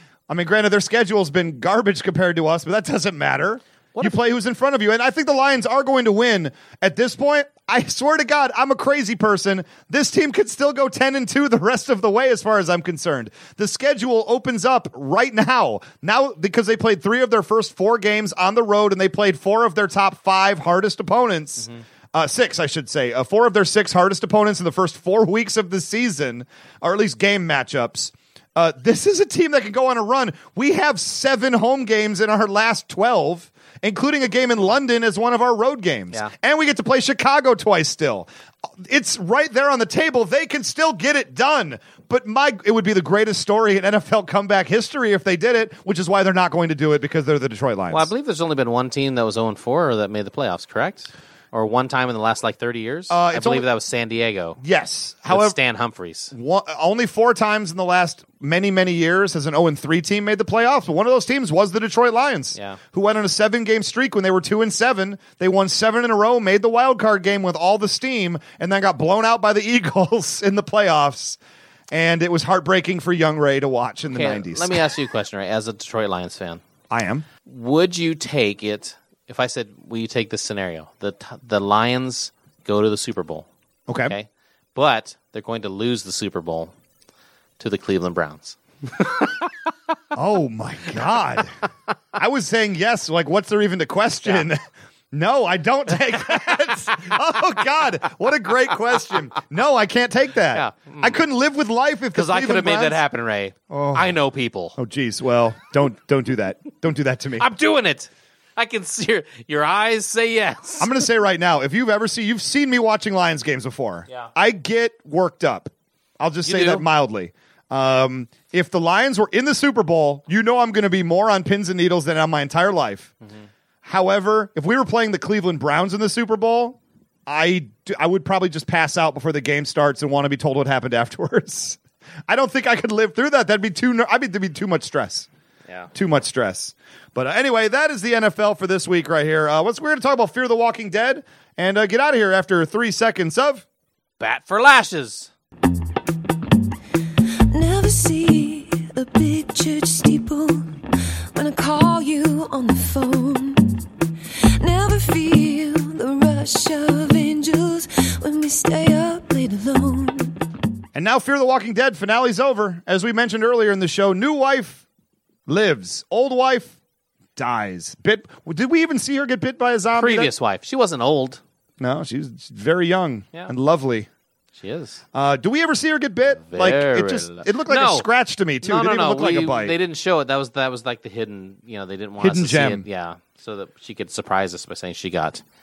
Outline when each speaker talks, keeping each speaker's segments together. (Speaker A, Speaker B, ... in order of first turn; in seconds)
Speaker A: 0.3-48.1, 53.1-53.7, 54.6-55.6, 56.3-71.4, 71.9-74.8, 76.9-77.3, 83.9-84.1, 90.1-91.5, 92.2-94.6, 95.1-103.0, 103.7-104.1, 104.8-107.5, 110.8-123.1, 123.8-135.3, 135.9-143.6, 160.9-164.8, 165.5-166.8, 167.4-170.3, 171.8-174.1, 175.1-179.8, 182.2-182.8
Speaker B: 47.9-54.6, 55.3-56.3, 74.1-76.6, 77.5-83.5, 84.0-86.7, 87.6-89.2, 100.5-101.2, 102.1-104.8, 107.4-110.9, 116.5-116.8, 144.2-145.3, 169.9-171.4, 174.6-175.0, 176.4-178.1, 178.6-185.4
Speaker C: 147.5-153.8, 154.6-160.4